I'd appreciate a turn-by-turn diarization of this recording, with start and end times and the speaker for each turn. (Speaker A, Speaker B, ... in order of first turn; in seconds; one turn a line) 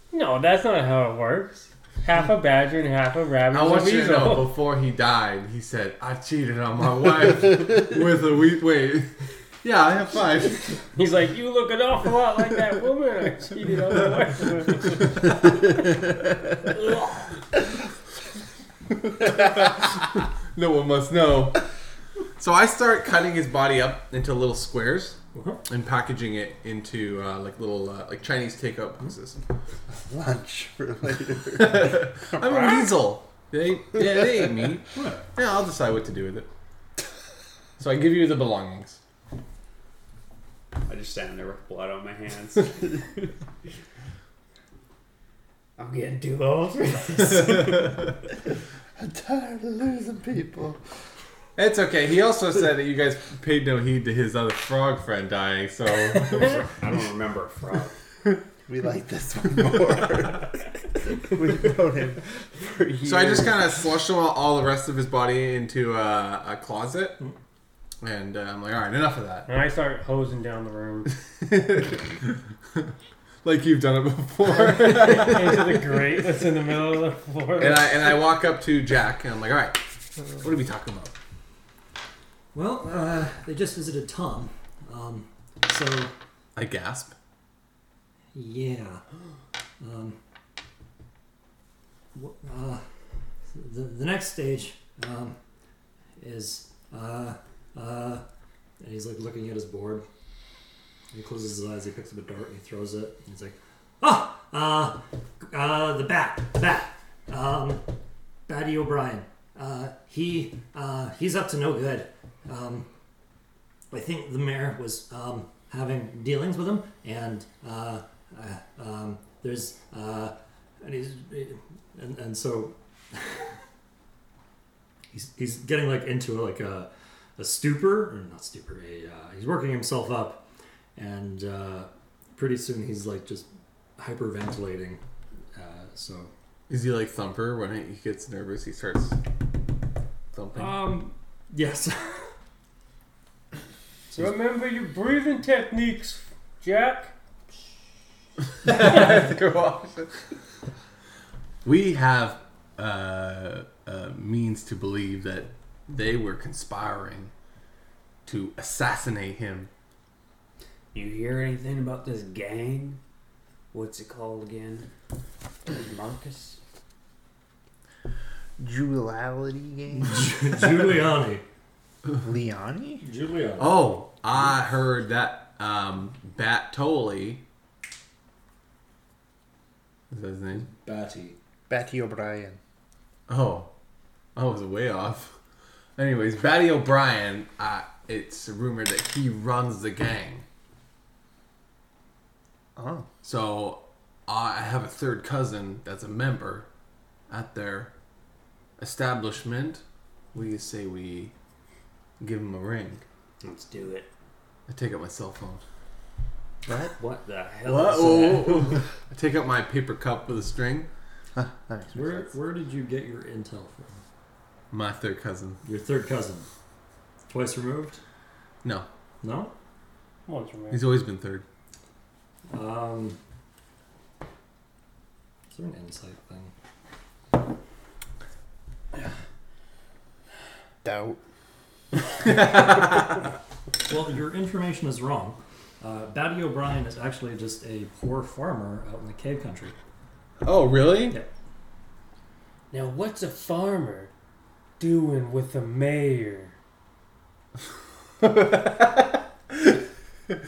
Speaker A: 0.1-4.5
Speaker B: 3.5-9.1
Speaker B: 9.6-10.8
Speaker A: 10.9-15.3
Speaker B: 19.1-21.6
Speaker B: 22.4-29.4
Speaker C: 25.3-25.6
Speaker D: 29.9-32.9
Speaker B: 31.6-36.5
Speaker C: 35.0-35.2
Speaker B: 37.8-39.0
Speaker E: 40.9-43.3
Speaker E: 45.8-48.1
Speaker D: 49.0-50.8
Speaker B: 51.6-56.7
Speaker E: 56.3-58.0
Speaker D: 58.7-63.8
Speaker B: 63.0-67.2
Speaker B: 68.0-69.5
Speaker A: 69.5-71.1
Speaker B: 71.4-72.9
Speaker B: 73.4-76.0
Speaker A: 74.7-78.2
Speaker B: 77.6-79.8
Speaker B: 80.4-81.1
Speaker C: 82.5-86.1
Speaker B: 86.6-87.1
Speaker C: 88.3-89.0
Speaker C: 89.8-90.2
Speaker C: 92.1-92.8
Speaker C: 93.5-95.4
Speaker C: 96.2-98.2
Speaker C: 98.8-100.1
Speaker C: 101.1-107.9
Speaker C: 108.5-112.9
Speaker C: 113.9-123.5
Speaker C: 125.1-130.4
Speaker C: 131.0-135.0
Speaker C: 135.5-136.3
Speaker B: 136.7-139.2
Speaker B: 140.3-140.9
Speaker C: 140.5-142.3
Speaker A: 144.1-147.1
Speaker B: 148.6-150.3
Speaker B: 151.6-157.3
Speaker B: 158.3-159.7
Speaker E: 160.9-163.0
Speaker E: 163.7-164.9
Speaker E: 165.7-166.6
Speaker D: 168.6-170.7
Speaker C: 170.0-171.4
Speaker D: 172.2-173.0
Speaker C: 173.0-173.9
Speaker B: 173.6-177.4
Speaker B: 180.1-180.7
Speaker C: 180.6-181.4
Speaker D: 181.7-182.6
Speaker B: 183.3-183.7
Speaker B: 184.4-185.4
Speaker B: 186.0-190.4
Speaker D: 192.8-193.1
Speaker B: 193.2-196.7
Speaker B: 197.3-197.9
Speaker B: 198.8-199.8
Speaker B: 200.3-201.3
Speaker B: 202.2-203.0
Speaker E: 203.4-204.1
Speaker B: 204.7-205.6
Speaker D: 206.7-206.9
Speaker E: 207.0-208.8
Speaker B: 207.6-210.9
Speaker D: 211.3-212.3
Speaker C: 211.9-214.0
Speaker B: 214.7-215.6
Speaker C: 215.6-216.5
Speaker C: 217.3-218.0
Speaker C: 219.2-219.5
Speaker A: 220.3-221.0
Speaker B: 220.7-221.4
Speaker C: 222.5-223.2
Speaker C: 225.5-226.5
Speaker D: 230.8-231.2
Speaker B: 232.2-233.2
Speaker C: 233.8-239.8
Speaker B: 240.4-241.2
Speaker A: 242.7-244.1
Speaker A: 244.8-246.6
Speaker B: 248.2-249.7